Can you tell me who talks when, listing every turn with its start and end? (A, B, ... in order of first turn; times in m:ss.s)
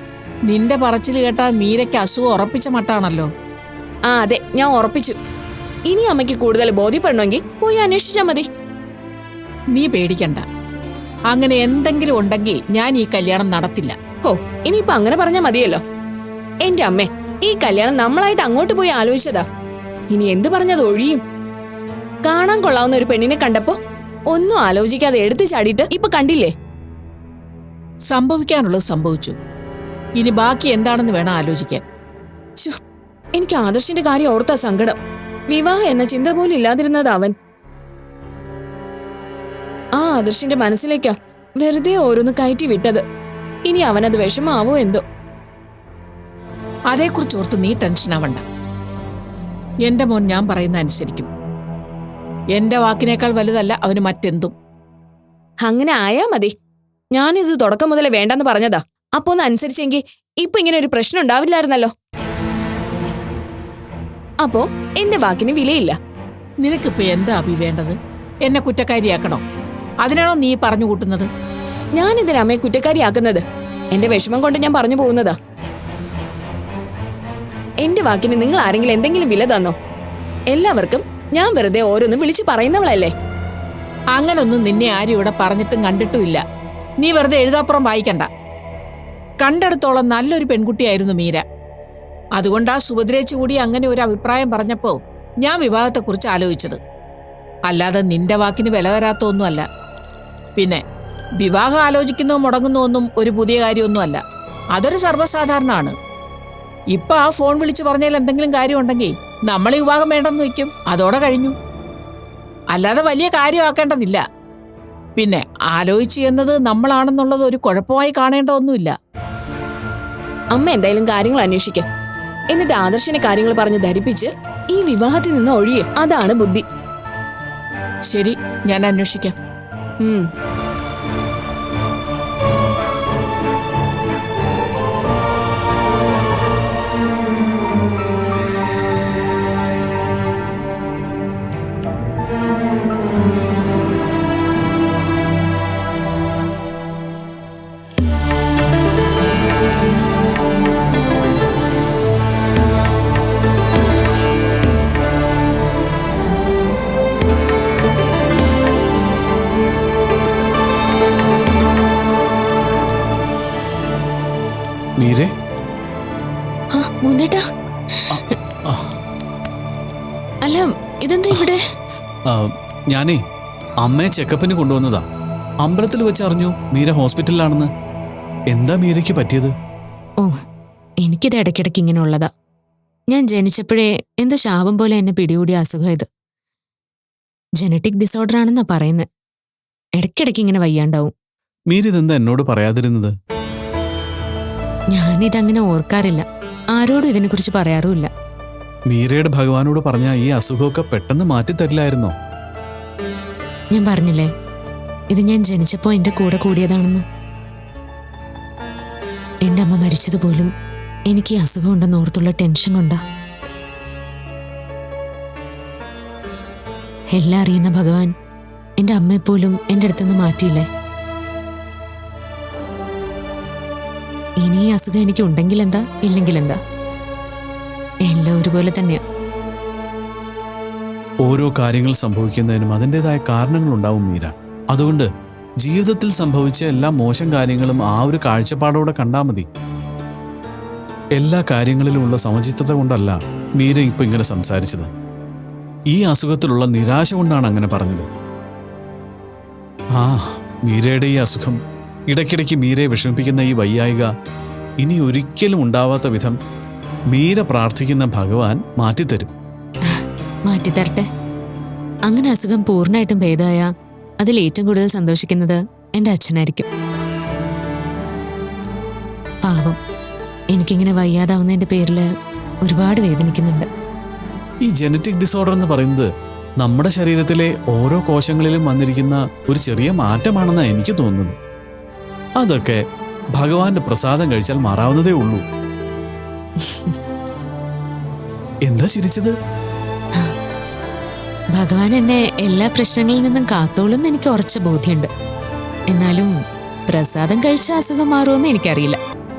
0:00.5-0:03.3 A
0:04.1-0:05.2 B
0:05.9-0:08.5 B
0:09.7-0:10.4 A
0:11.3-0:14.0 A
0:14.2-0:15.8 B
0:16.6-0:19.4 B
0:20.1-0:21.2 B
0:22.2-0:23.8 B
0:24.3-0:26.5 B
0:28.1-0:29.4 A
0:30.2-0:31.8 A
0:33.4-0:35.0 B
0:35.5-0:37.3 B
0:40.0-0:43.0 B
0:43.7-0:45.0 B
0:46.9-0:48.4 A
0:49.9-0:51.3 A
0:52.6-0:54.5 A
0:55.7-0:56.5 B
0:57.2-1:01.9 B
1:04.4-1:06.0 B
1:06.6-1:09.4 A
1:10.0-1:11.3 A
1:12.0-1:15.4 B
1:17.8-1:19.8 B
1:20.5-1:23.1 B
1:24.2-1:26.4 A
1:27.0-1:28.3 A
1:29.4-1:31.4 A
1:32.4-1:36.8 A
1:37.7-1:39.7 A
1:40.6-1:40.8 A
1:41.4-1:44.2 A
1:44.7-1:46.0 A
1:46.9-1:51.6 A
1:52.7-1:54.2 A
1:55.2-1:58.9 A
2:00.5-2:01.8 B
2:02.5-2:06.6 B
2:08.1-2:09.4 A
2:45.0-2:45.3 C
2:46.7-2:48.2 D
2:48.1-2:48.8 C
2:50.4-2:51.6 D
2:52.9-2:53.2 C
2:53.8-2:55.0 C
2:55.6-2:57.7 C
2:58.5-2:59.5 C
3:01.0-3:02.3 D
3:03.1-3:06.1 D
3:07.6-3:09.1 D
3:10.0-3:11.1 D
3:11.7-3:13.1 C
3:14.9-3:18.1 D
3:18.9-3:22.1 C
3:23.7-3:24.3 D
3:25.1-3:27.0 D
3:29.4-3:30.5 D
3:31.1-3:33.0 D
3:37.1-3:38.1 D
3:38.8-3:40.7 D
3:44.4-3:46.6 D
3:48.1-3:49.0 D
3:51.2-3:55.1 C
3:55.6-3:59.5 C
4:01.2-4:04.9 C
4:05.9-4:08.1 C
4:10.0-4:11.6 C
4:12.1-4:14.1 C
4:14.8-4:16.4 C
4:17.1-4:19.3 C
4:19.9-4:21.1 D
4:22.1-4:26.7 D
4:29.4-4:29.8 D
4:30.5-4:32.0 D
4:32.6-4:33.7 D
4:34.7-4:36.1 C
4:36.6-4:41.4 C
4:42.4-4:42.8 C
4:43.4-4:45.4 C
4:46.6-4:47.0 D
4:48.7-4:49.3 C
4:51.6-4:55.1 D
4:55.9-4:56.4 D
4:56.9-4:59.0 D